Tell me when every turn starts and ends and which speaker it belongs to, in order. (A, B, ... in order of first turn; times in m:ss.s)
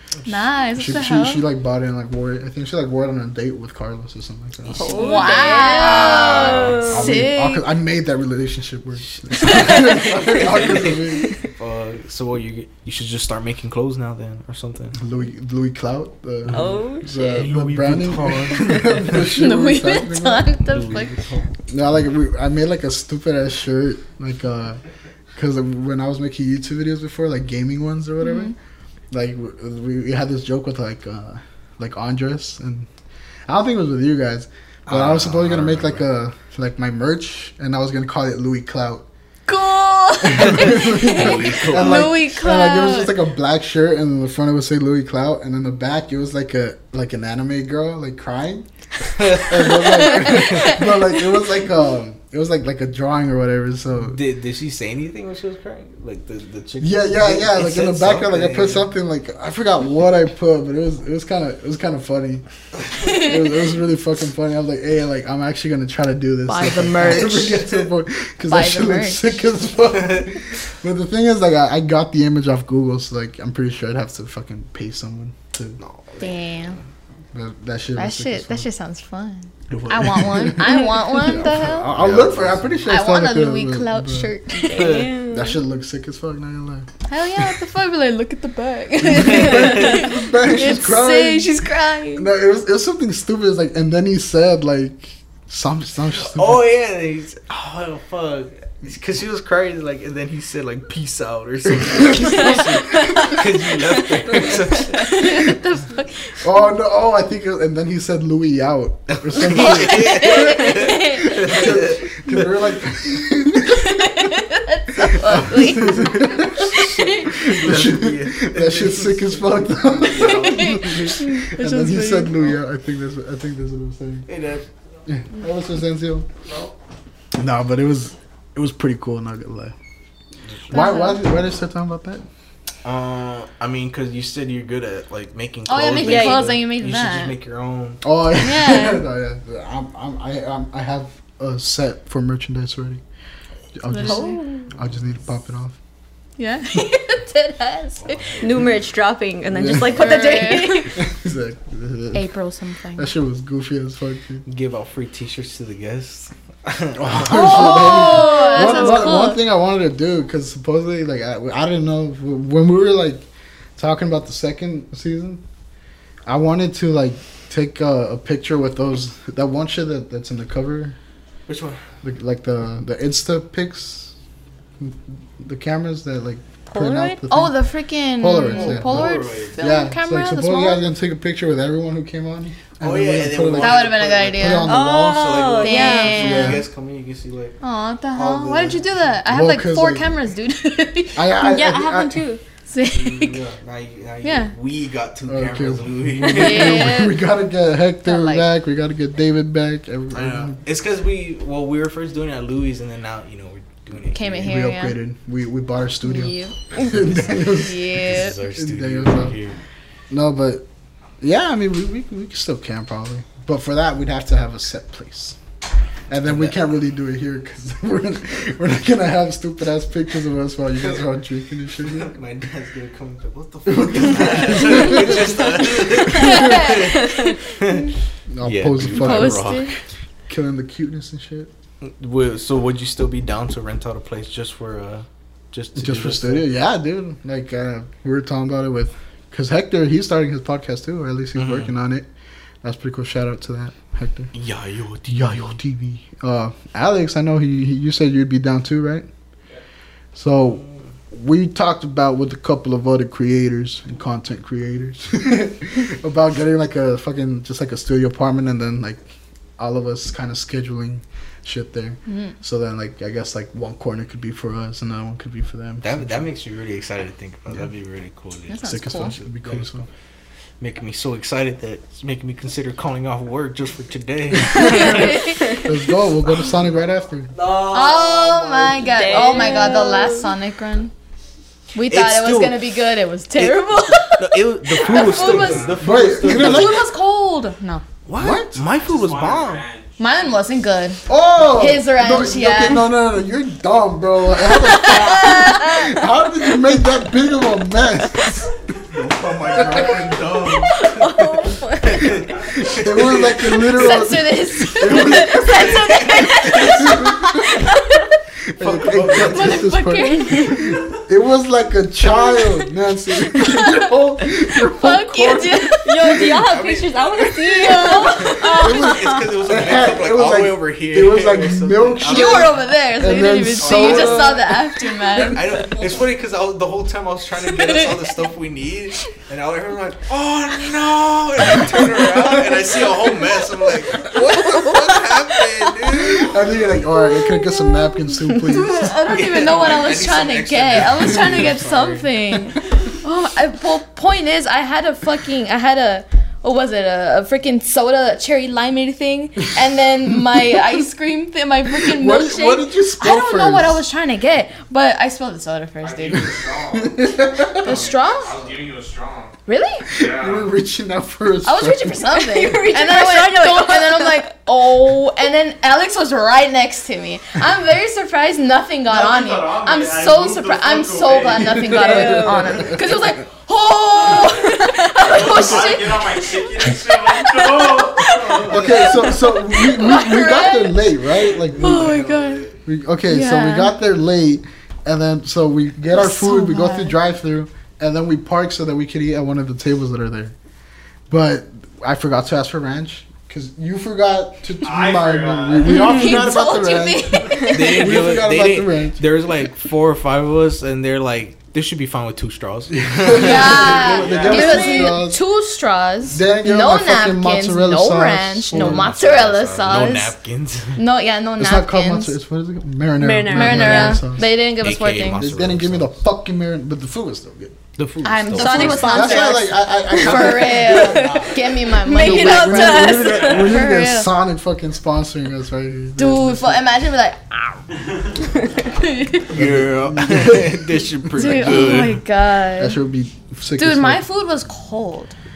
0:00.3-0:01.4 A
0:00.8-0:05.4 B
0:04.7-0:07.1 C
0:04.8-0:07.1 D
0:04.8-0:07.6 A
0:06.8-0:11.4 B
0:09.1-0:15.0 C
0:15.0-0:20.5 B
0:16.5-0:19.2 C
0:16.5-0:17.4 D
0:19.2-0:21.2 A
0:20.7-0:21.5 C
0:21.7-0:24.8 B
0:25.4-0:28.5 B
0:28.2-0:28.5 A
0:29.1-0:32.9 B
0:33.5-0:39.0 B
0:34.9-0:36.0 C
0:39.5-0:43.1 A
0:40.2-0:48.7 B
0:40.5-0:42.2 C
0:49.1-0:50.7 C
0:49.2-0:54.2 B
0:49.8-0:51.1 A
0:54.0-0:58.9 C
0:56.8-1:02.4 B
1:03.0-1:03.4 A
1:03.0-1:15.8 B
1:06.5-1:07.8 A
1:08.5-1:09.2 A
1:15.8-1:16.8 C
1:16.2-1:16.8 A
1:17.3-1:18.7 B
1:18.0-1:21.9 A
1:19.7-1:20.6 C
1:19.9-1:24.3 B
1:21.8-1:22.9 C
1:22.9-1:25.0 A
1:24.6-1:25.6 D
1:24.6-1:25.1 C
1:25.3-1:26.9 B
1:27.1-1:32.3 A
1:29.1-1:31.6 B
1:29.2-1:29.9 C
1:32.1-1:36.6 B
1:36.2-1:45.1 C
1:41.8-1:43.4 B
1:42.5-1:43.3 A
1:44.4-1:46.4 A
1:45.2-1:45.5 B
1:46.4-1:54.1 B
1:49.1-1:52.5 C
1:49.7-1:51.7 A
1:53.6-1:57.2 A
1:55.0-2:04.3 B
1:55.8-1:59.5 C
2:00.0-2:00.8 C
2:00.2-2:02.4 A
2:04.3-2:04.7 C
2:05.1-2:06.3 B
2:07.4-2:09.7 B
2:10.7-2:12.2 B
2:10.7-2:11.2 A
2:12.8-2:18.0 C
2:15.7-2:17.4 A
2:16.0-2:16.5 D
2:18.0-2:23.0 B
2:18.4-2:19.0 A
2:23.8-2:25.8 B
2:23.9-2:24.4 A
2:24.0-2:24.7 D
2:26.4-2:28.4 A
2:28.0-2:28.8 C
2:28.4-2:31.0 D
2:29.5-2:32.3 B
2:29.9-2:31.0 A
2:32.1-2:33.1 A
2:33.0-2:34.4 B
2:34.5-2:37.6 C
2:37.0-2:45.4 B
2:37.2-2:39.4 A
2:37.9-2:39.2 D
2:46.3-2:51.0 B
2:51.5-2:51.8 C
2:52.0-2:54.1 B
2:54.8-2:57.6 B
2:56.7-2:57.2 D
2:57.3-3:00.8 A
2:58.2-3:06.6 B
2:58.5-2:59.6 C
3:02.8-3:07.6 C
3:03.6-3:04.8 A
3:04.7-3:06.5 D
3:05.6-3:06.6 A
3:07.6-3:11.3 A
3:08.1-3:08.9 C
3:09.3-3:10.1 B
3:11.1-3:12.2 B
3:11.4-3:12.4 D
3:12.7-3:13.4 A
3:12.9-3:17.0 C
3:14.2-3:14.5 A
3:15.3-3:20.6 B
3:16.3-3:17.2 A
3:18.0-3:18.4 A
3:20.1-3:24.5 C
3:24.1-3:25.0 A
3:24.4-3:29.4 B
3:26.0-3:28.4 A
3:27.9-3:29.6 C
3:30.1-3:30.6 B
3:31.2-3:35.4 B
3:36.1-3:42.1 B
3:36.3-3:36.6 C
3:41.8-3:49.8 C
3:43.7-3:46.4 B
3:46.1-3:47.4 A
3:48.3-3:49.5 B
3:48.9-3:49.7 A
3:50.3-3:51.5 B
3:51.8-3:56.5 C
3:55.8-4:02.1 B
4:01.4-4:01.7 C
4:02.6-4:04.3 B
4:04.3-4:05.6 C
4:05.1-4:09.1 B
4:10.2-4:26.3 B
4:22.1-4:22.3 A
4:25.8-4:29.9 C
4:28.5-4:29.1 A
4:28.6-4:29.9 B
4:30.6-4:35.2 C
4:34.3-4:37.3 B
4:34.5-4:35.7 A
4:34.7-4:35.7 D
4:37.3-4:39.8 C
4:37.6-4:40.9 A
4:38.8-4:40.3 D
4:41.7-4:47.8 A
4:41.9-4:42.7 C
4:43.4-4:46.8 C
4:44.8-4:45.9 E
4:45.7-4:46.8 B
4:48.1-4:49.6 C
4:48.2-4:48.6 B
4:48.7-4:50.3 E
4:50.0-4:52.8 A
4:51.1-4:58.5 B
4:54.4-4:56.0 A
4:58.9-5:01.1 C
4:59.6-4:59.9 B
5:00.8-5:01.6 A
5:00.8-5:02.1 D
5:01.8-5:04.0 C
5:02.7-5:06.0 B
5:03.6-5:08.0 A
5:04.9-5:07.0 C
5:06.5-5:07.6 B
5:06.6-5:07.6 D
5:08.6-5:15.8 B
5:08.6-5:09.7 C
5:09.0-5:10.9 A
5:12.0-5:12.7 A
5:13.3-5:13.9 A
5:14.5-5:16.1 A
5:15.8-5:19.3 D
5:16.0-5:22.5 C
5:17.7-5:18.9 A
5:18.6-5:24.4 B
5:22.0-5:25.7 A
5:23.6-5:24.4 E
5:23.6-5:24.4 C
5:25.2-5:36.5 C
5:27.5-5:28.0 A
5:34.2-5:34.8 A
5:36.0-5:39.2 B
5:37.0-5:56.3 A
5:39.0-5:42.1 C
5:51.7-5:53.8 B
5:55.8-5:59.4 E
5:56.8-5:57.7 B
5:57.6-5:58.4 A
5:59.5-5:59.9 A
5:59.9-6:00.5 E
6:00.0-6:02.0 B
6:01.4-6:20.9 A
6:02.1-6:04.3 D
6:08.9-6:12.8 E
6:11.6-6:12.7 D
6:14.1-6:14.4 E
6:15.0-6:19.2 E
6:18.4-6:22.0 B
6:21.5-6:22.5 A
6:21.6-6:22.5 C
6:22.6-6:30.4 B
6:23.1-6:23.7 A
6:25.9-6:27.0 A
6:31.1-6:39.0 B
6:34.6-6:36.0 E
6:35.7-6:37.9 A
6:37.2-6:37.4 E
6:37.5-6:44.3 C
6:42.8-6:45.2 B
6:43.1-6:50.2 A
6:43.4-6:44.9 E
6:44.6-6:44.9 D
6:46.1-6:49.0 B
6:48.5-6:50.8 C
6:50.8-6:52.1 A
6:51.4-6:54.3 B
6:53.0-6:54.0 D
6:53.3-6:55.3 A
6:54.6-6:56.0 C
6:55.2-6:57.6 B
6:57.8-6:59.0 C
6:58.0-7:04.1 A
6:58.4-6:59.5 D
6:58.5-7:01.2 B
7:00.7-7:01.5 E
7:01.7-7:03.6 D
7:01.9-7:06.6 B
7:03.1-7:03.5 E
7:06.0-7:07.6 A
7:08.6-7:09.4 A
7:09.3-7:12.0 C
7:09.4-7:11.9 B
7:11.2-7:12.8 A
7:12.6-7:14.0 B
7:13.6-7:15.2 A